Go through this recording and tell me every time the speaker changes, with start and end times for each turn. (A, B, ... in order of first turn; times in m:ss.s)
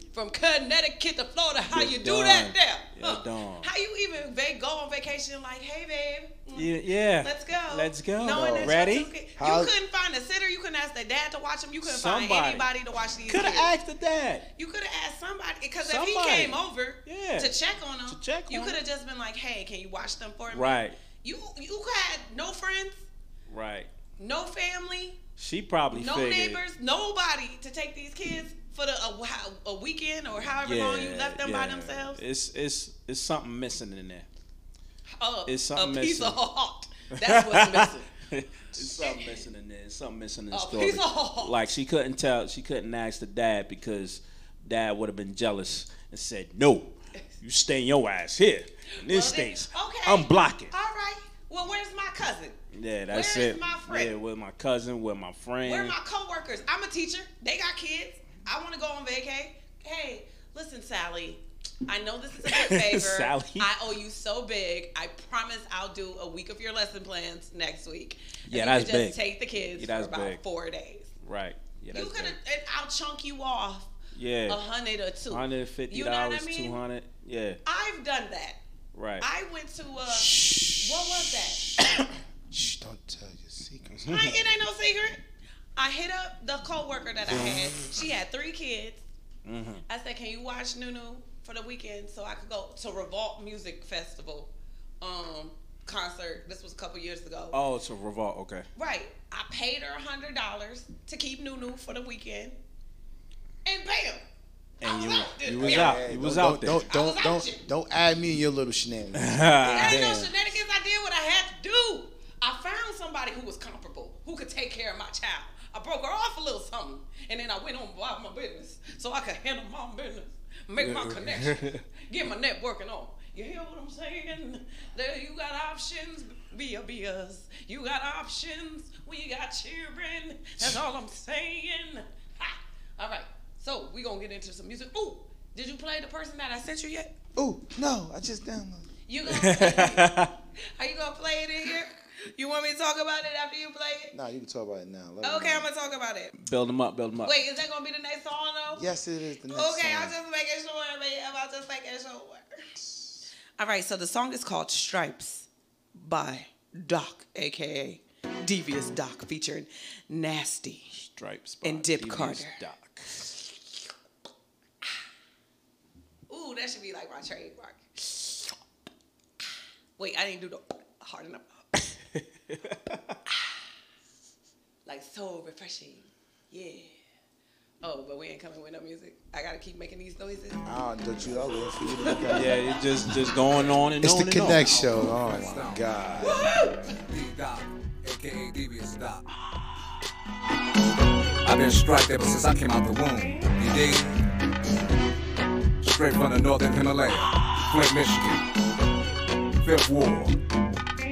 0:00.1-0:13.7 A
0:01.7-0:03.7 B
0:06.5-0:09.1 B
0:08.2-0:08.8 C
0:09.4-0:09.7 C
0:11.8-0:12.7 B
0:13.3-0:14.4 B
0:14.6-0:23.0 A
0:15.8-0:18.8 B
0:20.5-0:21.0 B
0:23.5-0:23.9 B
0:24.2-0:25.2 A
0:25.4-0:26.6 B
0:25.9-0:32.2 A
0:30.6-0:34.3 B
0:35.1-0:38.1 A
0:35.5-0:36.4 B
0:37.1-0:50.7 B
0:38.8-0:39.4 A
0:40.5-0:41.7 A
0:49.0-0:52.6 A
0:52.7-0:56.0 B
0:53.1-0:54.2 A
0:55.6-1:11.1 A
1:02.4-1:03.7 B
1:08.5-1:10.4 B
1:11.2-1:12.4 B
1:11.9-1:13.9 A
1:14.1-1:14.6 B
1:14.5-1:16.8 A
1:15.3-1:17.6 B
1:17.6-1:18.6 A
1:18.9-1:19.2 B
1:19.2-1:21.6 A
1:20.3-1:20.7 C
1:21.8-1:24.1 C
1:23.9-1:24.4 B
1:24.0-1:25.2 A
1:25.8-1:29.0 A
1:29.4-1:29.8 B
1:29.9-1:37.6 A
1:37.5-1:38.7 B
1:38.8-1:42.6 A
1:43.6-1:44.2 A
1:44.8-1:46.8 B
1:44.8-1:46.0 A
1:45.5-1:50.2 C
1:46.9-1:47.6 A
1:49.2-1:50.3 B
1:49.6-2:17.1 A
2:00.8-2:01.8 B
2:17.4-2:18.9 C
2:19.1-2:24.1 A
2:19.3-2:20.3 B
2:24.1-2:25.7 C
2:25.2-2:26.3 A
2:26.4-2:27.3 B
2:27.2-2:28.9 A
2:28.7-2:30.2 C
2:29.5-2:32.4 A
2:33.6-2:41.0 A
2:40.9-2:43.3 B
2:41.6-2:42.6 A
2:46.3-2:48.6 A
2:50.0-2:51.6 A
2:51.8-2:53.2 B
2:53.3-2:53.6 A
2:54.8-2:56.9 A
2:57.8-3:00.6 A
3:00.6-3:02.6 C
3:01.8-3:02.6 A
3:02.3-3:04.7 B
3:03.8-3:06.5 C
3:04.6-3:06.2 D
3:06.2-3:06.9 A
3:07.0-3:09.2 D
3:11.4-3:14.2 D
3:15.8-3:18.4 D
3:19.6-3:20.4 D